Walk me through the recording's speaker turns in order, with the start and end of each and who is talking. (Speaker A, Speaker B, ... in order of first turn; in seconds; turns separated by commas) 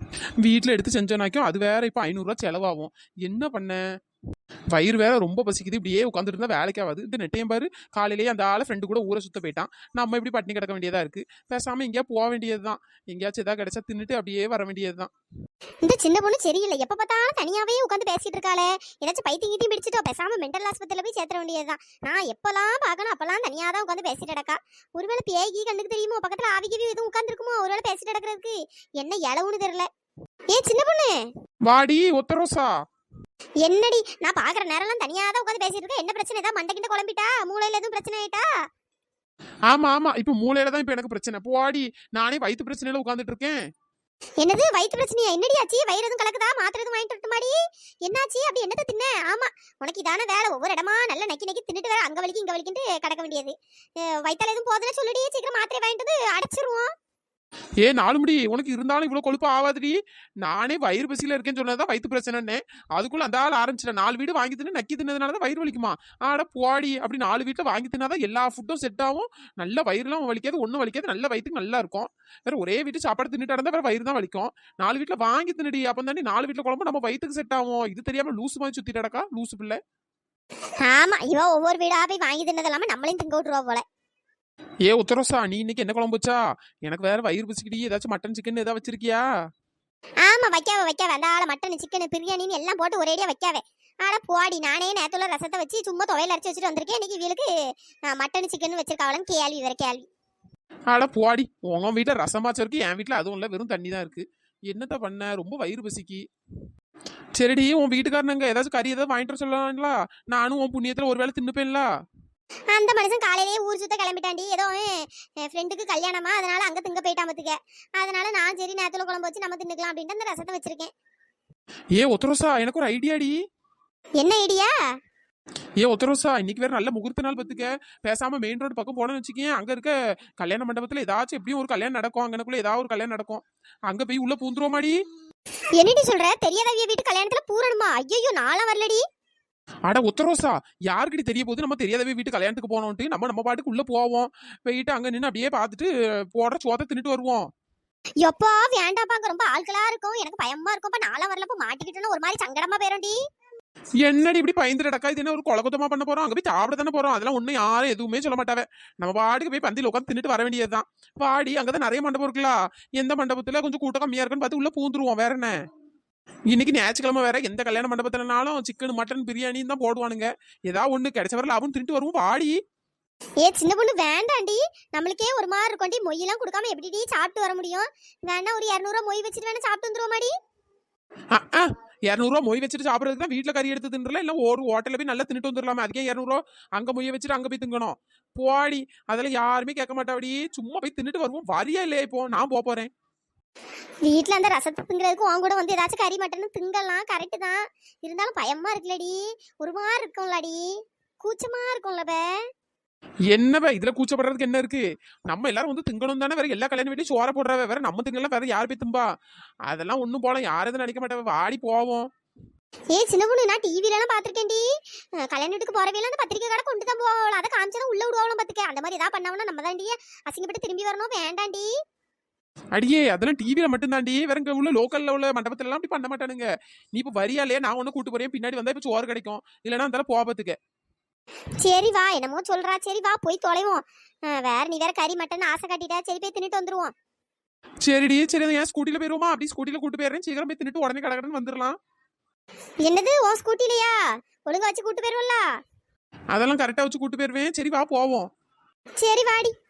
Speaker A: 0.4-3.8, Speaker A: 4.7-15.1, Speaker B: 15.8-29.9, Speaker B: 30.5-31.3, Speaker A: 31.7-32.7, Speaker B: 33.6-38.5, Speaker A: 39.7-43.6, Speaker B: 44.4-56.9, Speaker A: 57.8-79.8, Speaker B: 80.8-83.8, Speaker A: 84.8-89.3, Speaker B: 90.2-97.5, Speaker B: 98.1-100.1, Speaker A: 100.9-106.2, Speaker A: 107.3-111.9, Speaker B: 112.7-120.9, Speaker A: 122.0-123.3, Speaker B: 124.2-124.7, Speaker A: 125.8-135.0, Speaker B: 135.8-139.0, Speaker A: 139.9-147.5, Speaker B: 148.2-153.2, Speaker A: 154.0-165.5, Speaker A: 166.5-172.5, Speaker B: 173.4-180.3, Speaker A: 181.3-192.9, Speaker B: 194.0-202.3, Speaker A: 203.3-209.1, Speaker A: 209.7-212.1, Speaker B: 212.9-221.7, Speaker A: 222.7-230.6, Speaker B: 231.6-236.9, Speaker A: 237.8-241.8, Speaker B: 242.8-245.6, Speaker A: 246.3-248.3, Speaker B: 249.0-249.5